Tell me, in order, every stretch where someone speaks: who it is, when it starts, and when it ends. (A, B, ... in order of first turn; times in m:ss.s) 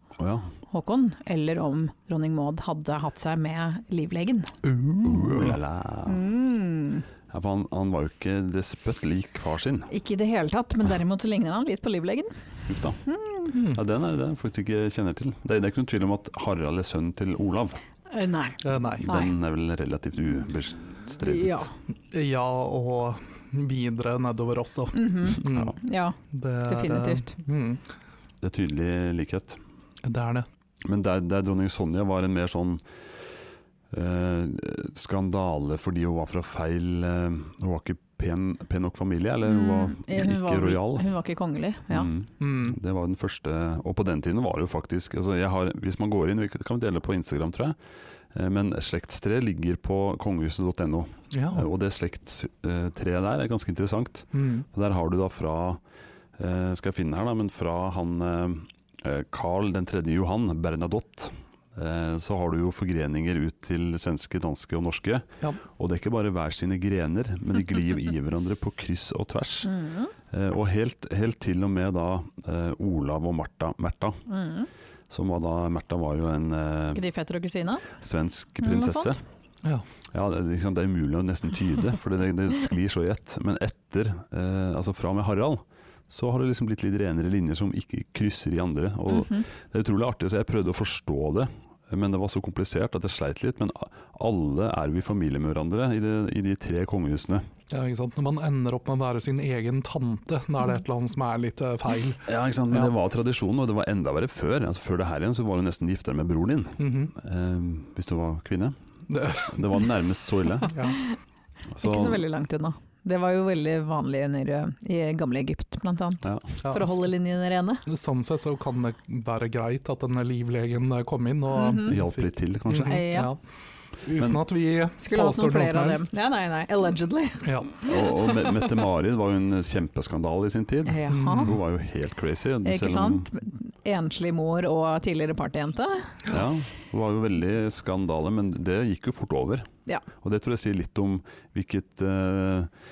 0:00.2-0:00.5 A
0:00.7-0:04.5 B
0:04.6-0:05.6 C
0:05.0-0:06.2 A
0:06.0-0:07.0 B
0:07.3-0:09.9 A
0:09.9-0:12.3 B
0:12.7-0:13.0 A
0:13.0-0:13.6 B
0:13.5-0:13.8 C
0:13.6-0:17.8 A
0:18.1-0:19.3 B
0:18.6-0:19.1 C
0:19.0-0:21.7 A
0:21.2-0:21.7 B
0:22.1-0:25.7 C
0:24.9-0:27.3 B
0:26.3-0:27.8 C
0:28.4-0:29.6 A
0:30.0-0:30.5 C
0:30.8-0:32.8 A
0:33.9-0:41.1 A
0:39.4-0:42.1 B
0:41.9-0:47.8 A
0:42.4-0:42.8 C
0:48.3-0:55.8 A
0:51.3-0:51.7 C
0:54.3-0:54.6 C
0:56.4-1:09.7 A
1:09.6-1:10.1 B
1:10.3-1:14.2 A
1:14.3-1:14.7 B
1:15.1-1:17.0 A
1:16.9-1:17.9 B
1:18.0-1:19.2 A
1:18.6-1:19.2 B
1:20.1-1:37.5 A
1:29.1-1:29.4 B
1:37.7-1:42.9 C
1:42.3-1:48.8 A
1:46.8-1:47.1 C
1:49.1-1:49.5 C
1:49.3-1:50.8 A
1:50.7-1:51.0 C
1:51.7-1:52.2 A
1:51.8-1:57.8 B
1:56.2-1:56.6 A
1:56.6-1:57.0 C
1:57.8-2:03.4 C
2:01.5-2:01.9 B
2:01.8-2:03.1 A
2:02.8-2:03.3 B
2:04.0-2:06.0 C
2:04.2-2:04.4 A
2:05.0-2:08.3 B
2:07.4-2:07.7 C
2:07.8-2:13.3 A
2:10.8-2:11.6 B
2:11.1-2:11.6 C
2:12.6-2:16.2 B
2:16.3-2:19.7 A
2:20.2-2:22.7 A